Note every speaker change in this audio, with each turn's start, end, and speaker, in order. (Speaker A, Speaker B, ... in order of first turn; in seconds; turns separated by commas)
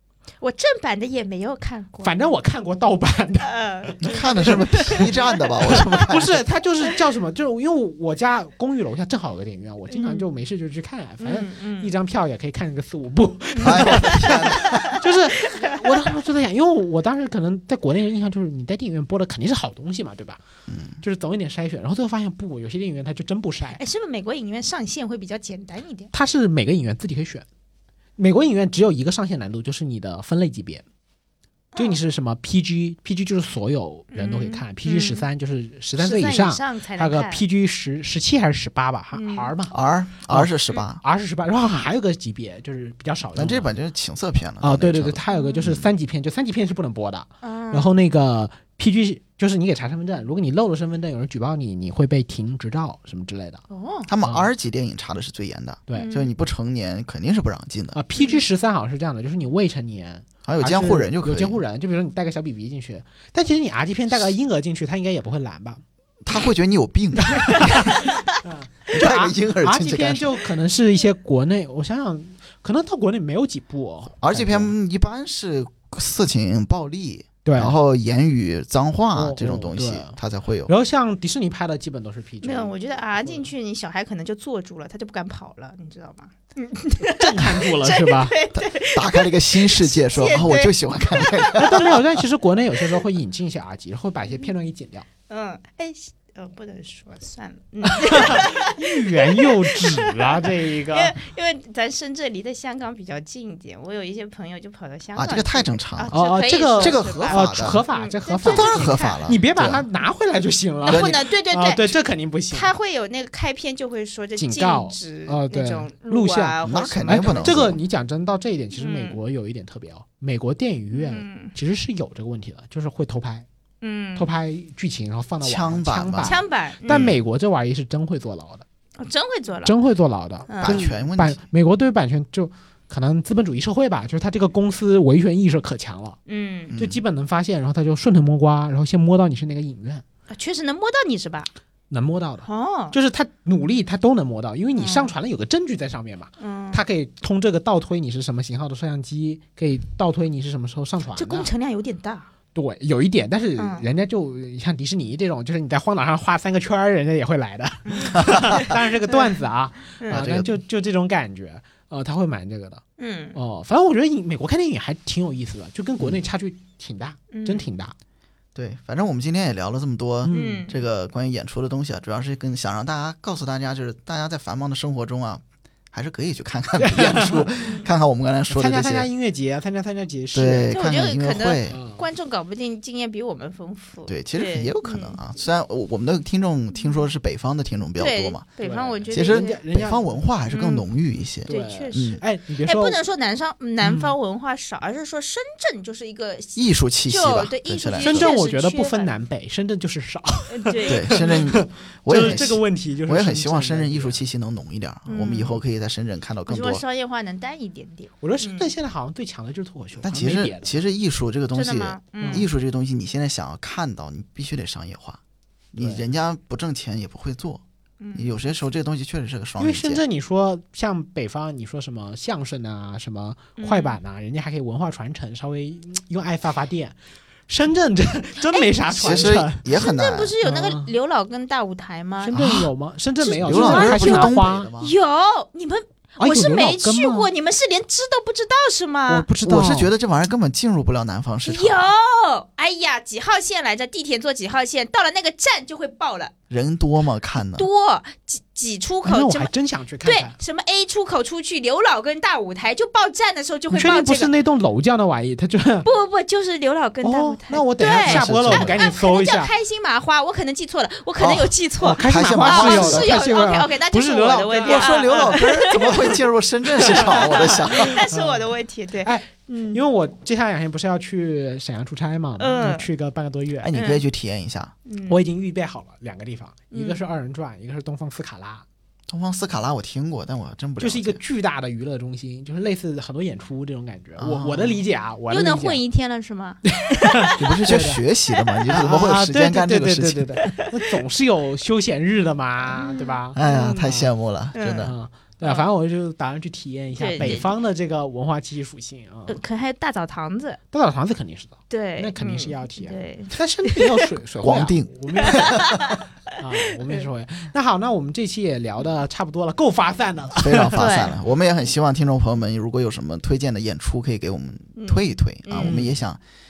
Speaker A: 0.4-2.1, Speaker B: 2.0-5.0, Speaker A: 3.4-6.1, Speaker C: 4.0-6.4, Speaker B: 5.7-20.4, Speaker A: 9.9-10.3, Speaker A: 11.2-11.9, Speaker A: 13.6-14.9, Speaker C: 13.6-15.0, Speaker A: 15.5-15.9, Speaker C: 20.7-21.0, Speaker B: 21.0-23.8, Speaker A: 23.7-26.1, Speaker B: 26.1-27.4, Speaker B: 28.2-30.8, Speaker A: 31.7-32.0, Speaker B: 31.8-39.7, Speaker A: 34.1-35.2, Speaker A: 36.0-37.4, Speaker A: 39.1-39.5, Speaker C: 39.7-41.0, Speaker B: 40.3-43.7, Speaker C: 43.3-45.9, Speaker B: 44.6-53.6, Speaker A: 45.3-45.7, Speaker A: 47.4-47.9, Speaker A: 53.7-54.1, Speaker C: 54.1-58.0, Speaker B: 54.2-54.5, Speaker A: 55.9-56.3, Speaker B: 57.9-65.8, Speaker A: 58.1-58.4, Speaker C: 60.4-61.6, Speaker C: 66.2-68.1, Speaker B: 67.2-74.7, Speaker C: 68.9-70.3, Speaker C: 74.2-80.7, Speaker B: 77.4-77.8, Speaker B: 79.1-82.7, Speaker A: 82.4-92.0, Speaker B: 87.0-88.3, Speaker C: 88.5-92.0, Speaker B: 91.5-95.0, Speaker A: 95.3-109.2, Speaker B: 97.9-101.2, Speaker C: 105.1-107.8, Speaker B: 106.1-112.7, Speaker C: 108.4-109.8, Speaker A: 110.8-112.0, Speaker C: 110.8-111.2, Speaker A: 112.5-117.8, Speaker B: 114.4-123.5, Speaker C: 116.6-117.8, Speaker A: 118.7-119.2, Speaker A: 120.9-121.5, Speaker A: 123.8-124.3, Speaker B: 124.1-128.6, Speaker C: 125.4-127.2, Speaker A: 126.2-127.1, Speaker A: 129.0-129.8, Speaker B: 129.6-136.2, Speaker A: 130.5-130.8, Speaker C: 130.6-131.4, Speaker A: 136.2-136.7, Speaker C: 136.7-137.0, Speaker B: 136.8-140.0, Speaker A: 140.3-141.5, Speaker B: 141.9-151.5, Speaker A: 142.4-142.9, Speaker A: 144.8-145.1, Speaker A: 146.4-146.8, Speaker A: 151.2-152.3, Speaker B: 152.5-162.8, Speaker A: 153.6-153.8, Speaker A: 157.9-158.7, Speaker C: 158.2-158.6, Speaker C: 160.1-160.5, Speaker A: 163.0-163.4, Speaker B: 163.3-167.9, Speaker A: 167.3-167.7, Speaker C: 168.5-179.1, Speaker B: 170.2-170.7, Speaker A: 170.3-170.8, Speaker B: 176.8-177.5, Speaker A: 177.6-177.9, Speaker B: 178.5-180.7, Speaker C: 180.3-181.8, Speaker A: 180.7-185.2, Speaker B: 181.7-182.0, Speaker C: 184.1-188.4, Speaker A: 188.0-189.6, Speaker B: 188.6-190.0, Speaker C: 189.1-192.2, Speaker A: 190.5-190.8, Speaker A: 191.4-199.1, Speaker B: 191.5-193.0, Speaker B: 193.8-194.1, Speaker C: 196.6-198.3, Speaker B: 198.0-204.2, Speaker A: 200.5-201.4, Speaker C: 200.9-206.8, Speaker A: 205.1-205.6, Speaker A: 206.5-208.7, Speaker B: 208.2-210.8, Speaker C: 210.0-215.2, Speaker A: 211.5-212.4, Speaker B: 212.2-212.5, Speaker C: 215.7-217.6, Speaker B: 215.8-216.1, Speaker A: 218.0-218.4, Speaker C: 218.1-220.0, Speaker B: 219.6-226.9, Speaker A: 223.6-224.0, Speaker B: 227.5-229.6, Speaker A: 228.5-232.4, Speaker C: 229.0-230.3, Speaker B: 230.4-230.9, Speaker B: 232.2-234.7, Speaker C: 232.3-232.7, Speaker A: 233.2-239.3, Speaker C: 233.4-234.9, Speaker B: 236.2-237.3, Speaker B: 239.1-239.9, Speaker C: 239.4-241.9, Speaker A: 241.4-246.3, Speaker C: 246.5-247.7, Speaker A: 247.5-249.5, Speaker B: 249.0-250.3, Speaker A: 250.0-254.3, Speaker B: 253.7-255.9, Speaker A: 255.8-266.1, Speaker B: 257.0-259.5, Speaker C: 257.9-258.8, Speaker C: 261.2-263.2, Speaker B: 261.8-265.4, Speaker C: 264.6-268.0, Speaker B: 266.8-268.5, Speaker A: 266.9-269.8, Speaker B: 269.0-273.7, Speaker A: 272.4-272.9, Speaker C: 273.6-274.7, Speaker A: 273.7-274.0, Speaker A: 274.9-275.2, Speaker B: 275.1-278.6, Speaker A: 276.7-277.0, Speaker C: 279.1-281.2, Speaker B: 280.8-285.8, Speaker C: 284.2-284.8, Speaker A: 285.3-287.5, Speaker B: 286.7-288.0, Speaker C: 287.4-290.6, Speaker B: 288.7-294.1, Speaker A: 292.7-293.9, Speaker C: 293.3-294.9, Speaker A: 294.5-295.6, Speaker B: 294.8-299.4, Speaker A: 296.9-297.6, Speaker A: 299.3-300.6, Speaker B: 300.7-305.7, Speaker A: 301.7-303.9, Speaker C: 304.4-306.0, Speaker A: 305.2-306.0, Speaker B: 306.4-310.8, Speaker C: 310.4-316.2, Speaker A: 310.8-311.1, Speaker A: 314.8-315.9, Speaker B: 315.6-315.9